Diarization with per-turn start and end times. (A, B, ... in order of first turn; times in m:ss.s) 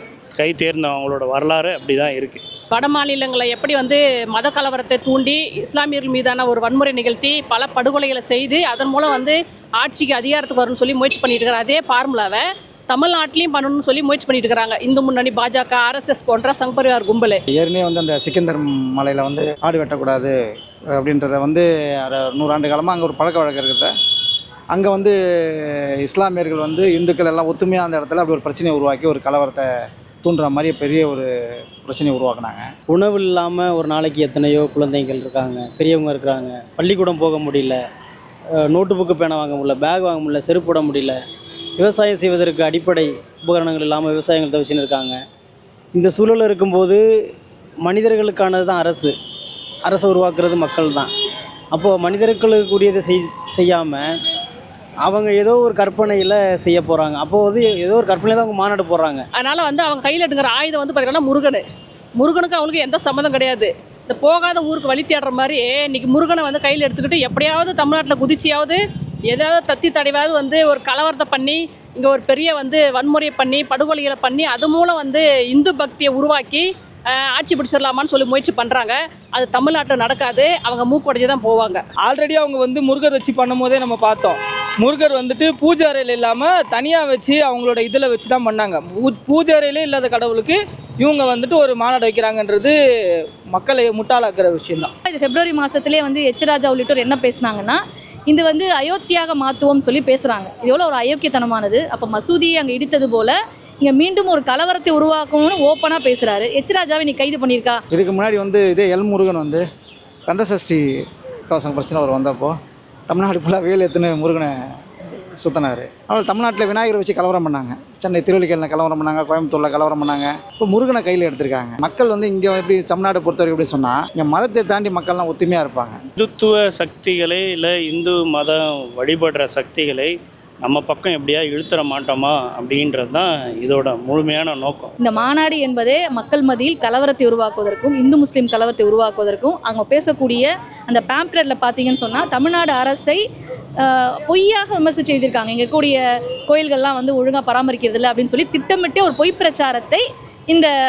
0:00.4-0:02.4 A
0:02.7-0:17.4 B
0:17.5-0:20.3 C
0:20.9-0:23.9 C
0:24.7-0:29.7 C
0:30.2-0:31.3 C
0:31.8-0:32.7 C
0:32.9-0:37.8 D
0:38.6-0:41.2 D
0:41.8-0:45.2 D
0:45.9-0:47.0 D
0:47.8-0:49.1 D
0:49.8-0:51.1 D
0:51.7-0:54.1 D
0:55.0-0:59.2 D
0:59.3-1:01.6 B
1:02.2-1:08.8 B
1:09.3-1:21.8 B
1:22.0-1:32.8 E
1:33.5-1:34.9 E
1:35.1-1:47.8 F
1:47.9-1:49.6 C
1:50.3-1:50.8 C
1:51.5-1:52.5 C
1:53.1-1:54.5 C
1:55.4-2:06.0 C
2:06.2-2:14.9 A
2:15.0-2:23.2 F
2:23.8-2:30.7 F